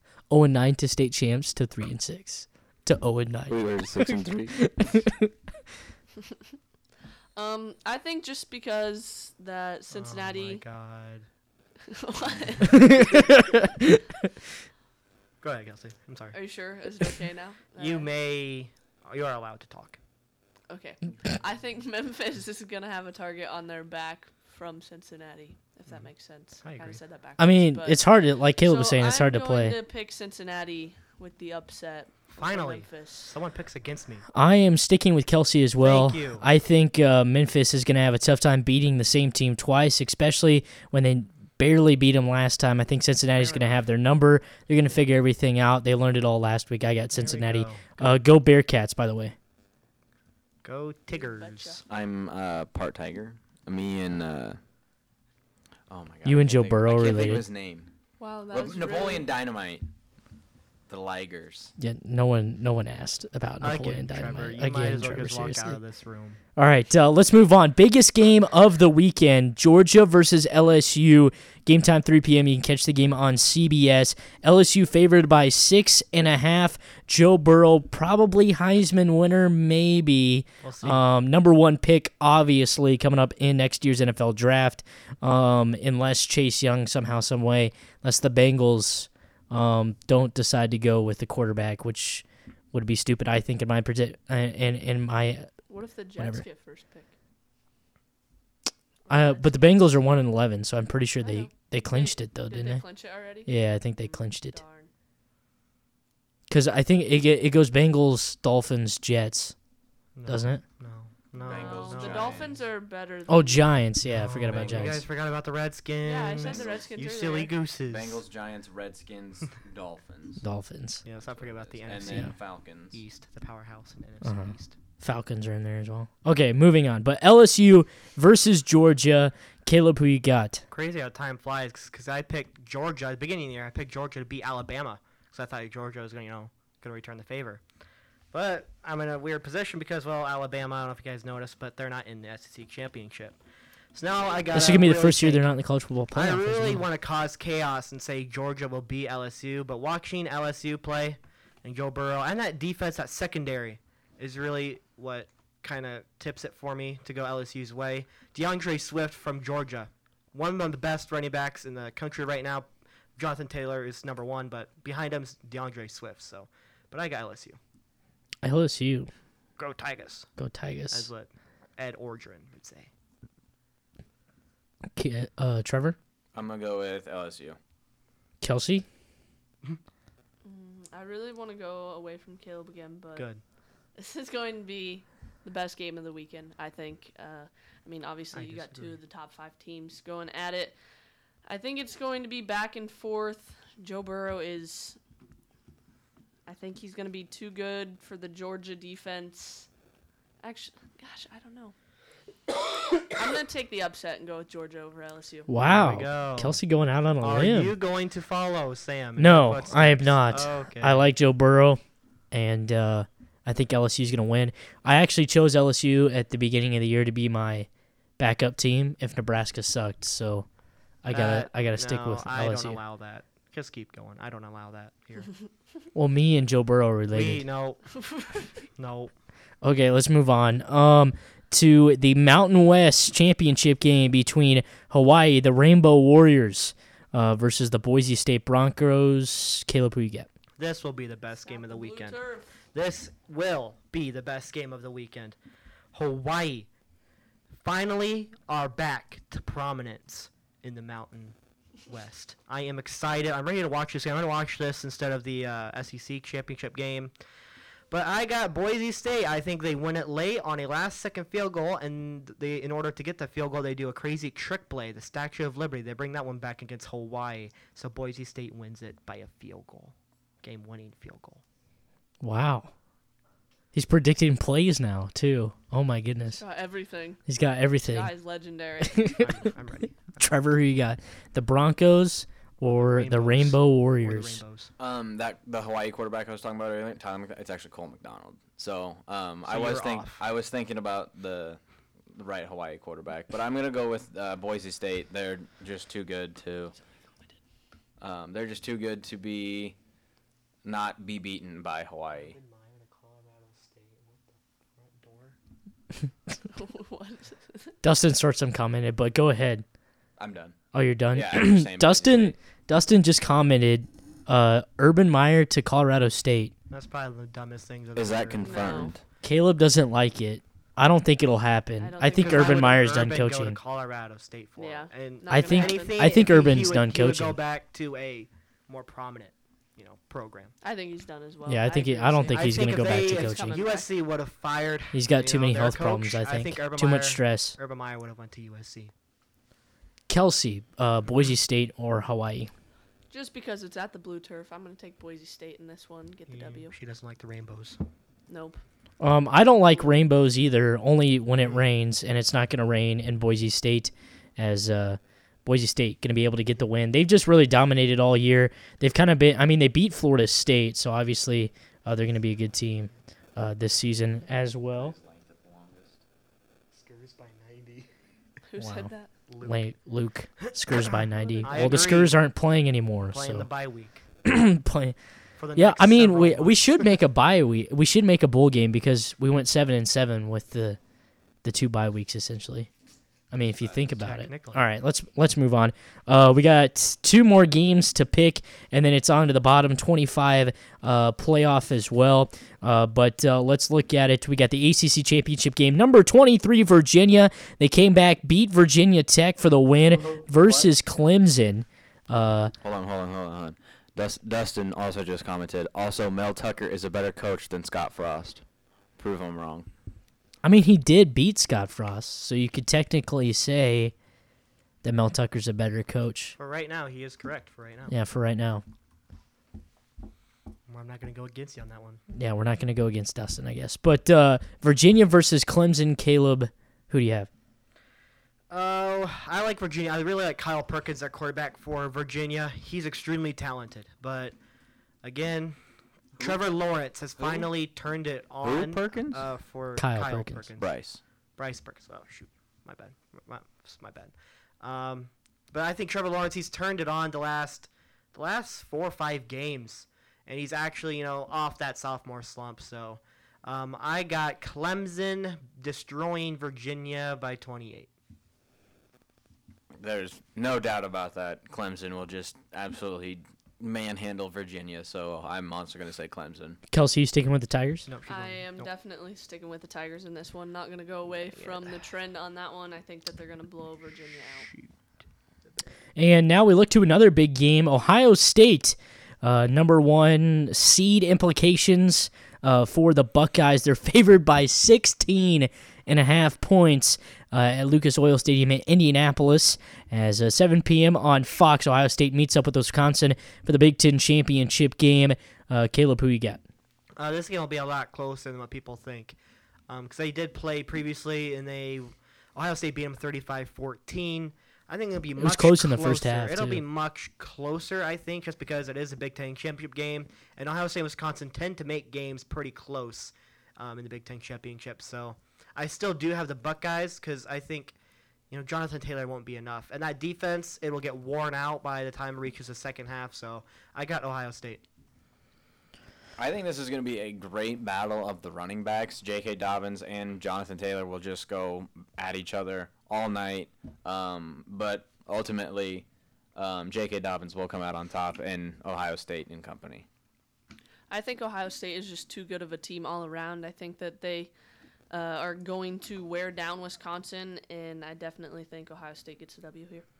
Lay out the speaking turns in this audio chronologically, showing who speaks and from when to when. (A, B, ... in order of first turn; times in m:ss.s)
0:00.3-0:05.3 A
0:03.5-0:04.7 B
0:07.3-0:10.6 C
0:09.9-0:11.2 D
0:11.8-0:13.0 C
0:12.7-0:14.0 A
0:15.4-0:16.4 D
0:16.3-0:18.1 C
0:17.8-0:20.0 D
0:20.7-0:28.0 C
0:26.6-0:27.0 D
0:27.4-0:29.8 A
0:28.6-0:33.3 C
0:32.3-0:34.2 D
0:34.3-0:49.3 A
0:35.8-0:36.4 D
0:43.3-0:43.8 D
0:47.1-0:48.1 D
0:50.6-0:51.8 D
0:51.1-0:51.8 C
0:51.9-0:54.6 B
0:55.9-0:57.9 B
0:56.2-0:57.4 A
0:58.2-0:59.3 C
0:58.5-0:59.9 B
1:00.9-1:01.7 B
1:01.8-1:05.8 A
1:03.6-1:06.4 D
1:06.6-1:35.5 A
1:20.6-1:21.0 D
1:35.7-1:37.1 C
1:36.2-1:36.4 A
1:39.0-1:40.0 C
1:39.1-1:42.8 A
1:41.2-1:44.9 C
1:43.4-1:44.6 A
1:46.5-1:49.5 A
1:50.2-1:52.5 D
1:50.3-1:50.6 A
1:51.4-1:53.7 C
1:51.4-1:52.6 B
1:53.3-1:55.0 A
1:54.0-1:58.2 D
1:54.5-1:54.9 B
1:56.0-1:57.5 C
1:56.4-1:56.9 B
1:57.9-2:00.4 B
2:00.4-2:01.0 A
2:01.0-2:04.7 D
2:01.3-2:03.0 B
2:04.2-2:10.6 A
2:10.7-2:17.6 D
2:18.3-2:23.4 D
2:23.9-2:25.4 D
2:24.0-2:24.8 C
2:24.5-2:26.8 A
2:26.1-2:47.6 D
2:48.4-2:49.1 A
2:49.6-2:50.3 D
2:50.4-2:51.1 A
2:50.9-2:52.9 D
2:54.9-2:56.0 A
2:56.3-2:57.6 B
2:58.4-2:58.8 A
3:00.4-3:03.3 C
3:03.2-3:03.4 D
3:03.9-3:10.8 C
3:08.3-3:09.0 D
3:11.4-3:15.0 C
3:16.4-3:19.7 C
3:20.4-3:21.7 C
3:23.1-3:25.5 C
3:25.5-3:27.7 A
3:25.6-3:26.6 D
3:27.2-3:31.1 D
3:29.2-3:31.8 A
3:32.3-3:40.4 A
3:41.0-3:42.8 A
3:41.1-3:45.3 D
3:45.9-3:47.4 A
3:47.1-3:47.8 D
3:48.1-3:48.5 C
3:48.8-3:49.1 D
3:49.6-4:00.3 A
4:00.6-4:02.2 D
4:01.4-4:02.5 C
4:02.7-4:05.4 D
4:05.9-4:06.7 D
4:07.6-4:17.1 D
4:17.9-4:31.4 D
4:32.2-4:32.7 A
4:33.7-4:36.4 A
4:36.4-4:37.2 C
4:37.2-4:38.1 A
4:37.9-4:39.3 C
4:38.8-4:39.3 A
4:39.2-4:40.3 D
4:40.2-4:44.4 A
4:42.6-4:44.7 D
4:44.8-4:51.6 B
4:49.5-4:50.2 D
4:52.1-4:56.7 B
4:58.0-4:59.8 B
5:00.6-5:02.4 B
5:02.1-5:05.4 D
5:06.5-5:07.7 C
5:07.8-5:09.6 A
5:10.2-5:10.6 B
5:10.7-5:16.5 A
5:11.1-5:12.4 B
5:16.7-5:18.9 D
5:18.0-5:19.0 B
5:18.4-5:18.9 C
5:19.2-5:23.6 A
5:21.8-5:22.8 C
5:22.1-5:30.5 D
5:24.6-5:26.3 C
5:25.3-5:27.4 A
5:30.6-5:33.9 C
5:31.5-5:33.6 A
5:32.3-5:38.9 D
5:34.9-5:37.6 A
5:40.1-5:42.5 A
5:43.1-5:46.7 C
5:46.3-5:47.8 D
5:48.3-5:48.6 C
5:49.0-6:04.9 A
6:04.7-6:06.0 B
6:06.7-6:07.9 D
6:08.5-6:09.1 C
6:08.6-6:08.9 A
6:09.3-6:09.7 D
6:09.4-6:13.5 A
6:10.4-6:12.2 D
6:11.2-6:11.8 C
6:13.1-6:14.0 D
6:14.2-6:15.0 A
6:15.4-6:16.9 D
6:15.6-6:20.8 A
6:21.4-6:22.7 A
6:23.3-6:42.5 A
6:24.0-6:24.6 D
6:39.8-6:40.7 B
6:42.6-6:48.4 B
6:49.0-6:49.7 B
6:50.4-6:53.9 A
6:54.8-6:56.4 A
6:56.4-6:57.9 D
6:57.9-6:58.6 A
7:00.7-7:02.0 D
7:02.1-7:07.3 A
7:08.5-7:14.4 D
7:15.0-7:15.6 D
7:16.2-7:20.7 D
7:17.2-7:17.5 B
7:18.4-7:19.2 B
7:19.8-7:20.5 A
7:20.6-7:21.0 B
7:21.4-7:37.9 D
7:39.8-7:46.6 B
7:46.7-7:47.9 A
7:47.9-7:48.7 D
7:48.1-7:54.5 C
7:51.1-7:51.8 D
7:56.0-8:16.4 A
8:17.0-8:19.2 D
8:19.7-8:37.7 D
8:25.2-8:26.6 A
8:38.3-8:44.6 D
8:46.2-8:59.9 B
9:00.9-9:04.3 C
9:04.9-9:09.9 C